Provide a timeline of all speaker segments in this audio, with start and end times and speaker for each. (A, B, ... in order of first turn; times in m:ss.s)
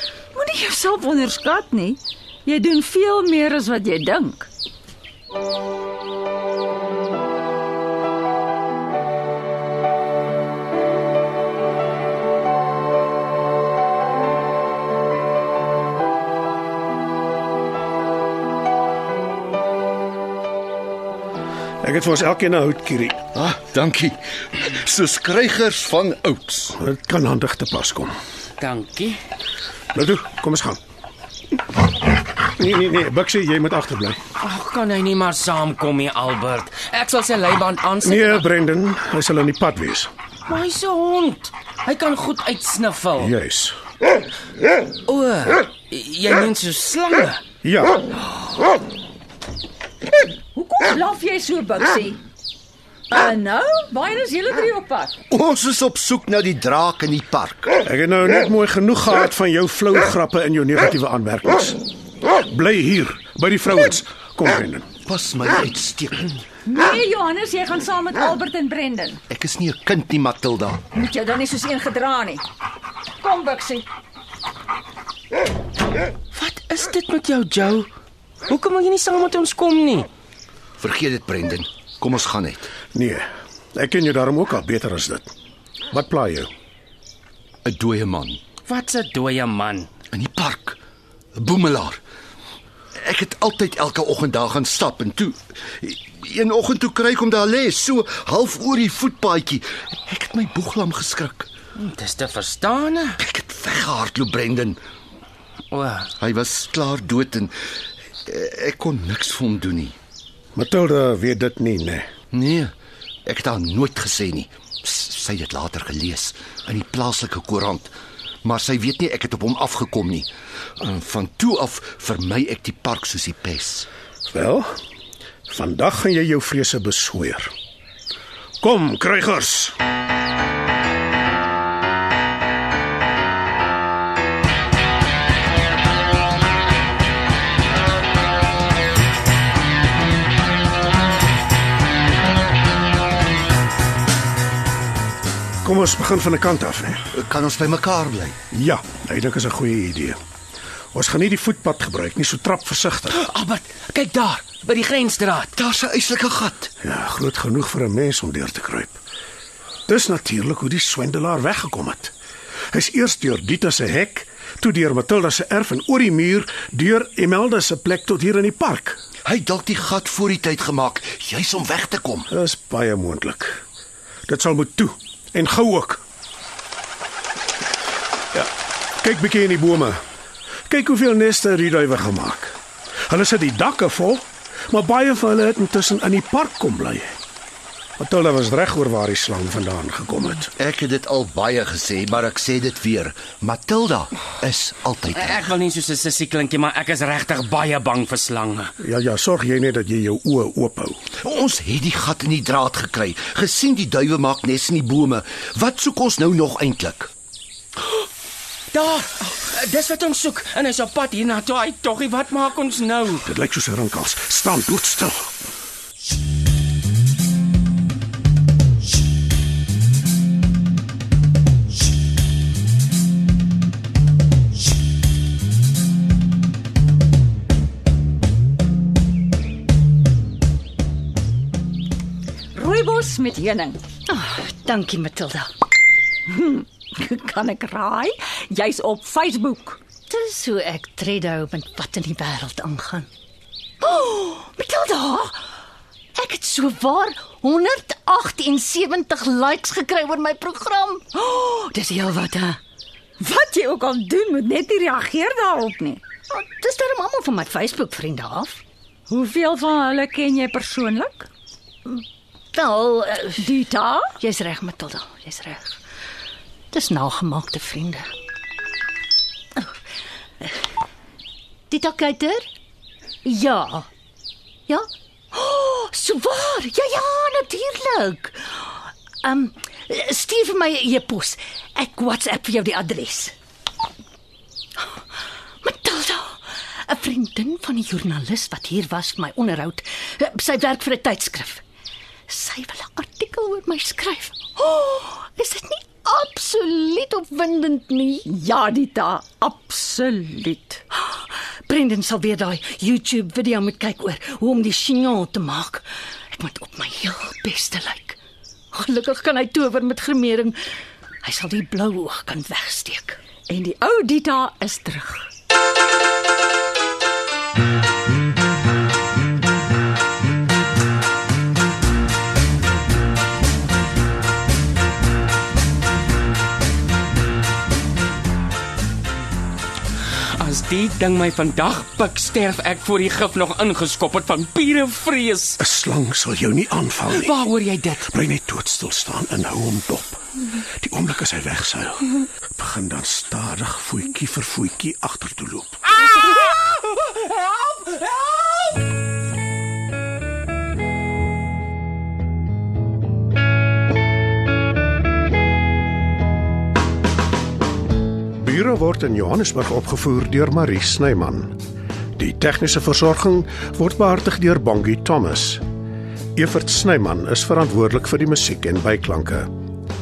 0:00.4-0:04.5 A
0:21.8-0:23.2 B
0:23.4-0:26.8 C
0:26.8-0:28.1 B
0:28.6-0:29.2 D
0:29.9-0:30.8 B
0:32.6-0:34.2 B
0:34.4-0:38.4 D
0:38.0-0:40.1 B
0:40.5-0:43.3 D
0:43.2-0:43.8 B
0:45.1-0:47.4 D
0:47.6-0:48.0 B
0:50.6-0:52.2 A
0:53.1-0:55.1 A
0:55.3-0:57.7 C
0:57.8-1:01.8 B
1:02.3-1:04.9 B
1:05.0-1:06.3 C
1:06.6-1:09.2 A
1:09.3-1:10.8 C
1:10.9-1:12.4 A
1:13.2-1:13.8 A
1:16.3-1:17.9 D
1:18.5-1:20.1 D
1:20.8-1:22.7 C
1:22.9-1:25.3 B
1:25.9-1:26.5 B
1:27.6-1:28.4 C
1:28.7-1:29.9 D
1:30.1-1:30.8 C
1:31.4-1:32.0 C
1:33.0-1:41.5 C
1:41.8-1:43.2 D
1:43.2-1:44.8 C
1:45.7-1:46.1 D
1:46.2-1:47.5 C
1:48.3-1:50.0 C
1:50.6-1:52.1 B
1:52.3-1:52.7 C
1:53.3-2:00.3 C
2:00.8-2:03.9 C
2:04.3-2:04.7 B
2:05.5-2:07.5 B
2:08.6-2:09.8 B
2:25.6-2:27.0 B
2:27.1-2:28.4 C
2:28.5-2:30.2 B
2:30.9-2:33.2 B
2:33.1-2:35.6 D
2:35.6-2:36.7 C
2:36.8-2:39.0 B
2:39.9-2:42.1 B
2:42.7-2:49.0 B
2:49.2-2:52.3 C
2:52.3-2:53.6 B
2:54.3-2:56.0 B
2:58.3-3:00.0 B
3:00.7-3:02.6 B
3:03.1-3:07.1 B
3:08.0-3:10.5 B
3:10.6-3:15.5 C
3:15.1-3:18.7 D
3:18.8-3:21.0 B
3:21.2-3:27.1 C
3:28.7-3:33.3 D
3:33.3-3:35.3 B
3:52.6-3:53.8 A
3:54.1-3:55.5 E
3:56.3-3:59.8 A
4:00.1-4:03.1 E
4:03.8-4:05.4 E
4:06.2-4:12.6 E
4:13.2-4:16.0 A
4:16.3-4:18.6 E
4:19.1-4:21.3 A
4:21.9-4:23.5 E
4:23.4-4:24.2 A
4:24.2-4:25.8 E
4:26.7-4:28.1 E
4:31.7-4:32.5 E
4:33.2-4:33.9 E
4:34.7-4:43.3 E
4:45.6-4:51.6 E
4:52.3-4:58.3 E
4:58.3-5:00.8 A
5:00.9-5:08.2 E
5:08.7-5:10.6 E
5:11.2-5:13.2 E
5:13.5-5:15.3 A
5:30.4-5:35.6 D
5:35.6-5:37.4 B
5:37.1-5:38.1 D
5:38.1-5:40.2 B
5:40.8-5:45.8 B
5:58.4-6:01.6 B
6:02.2-6:05.6 B
6:06.4-6:09.5 B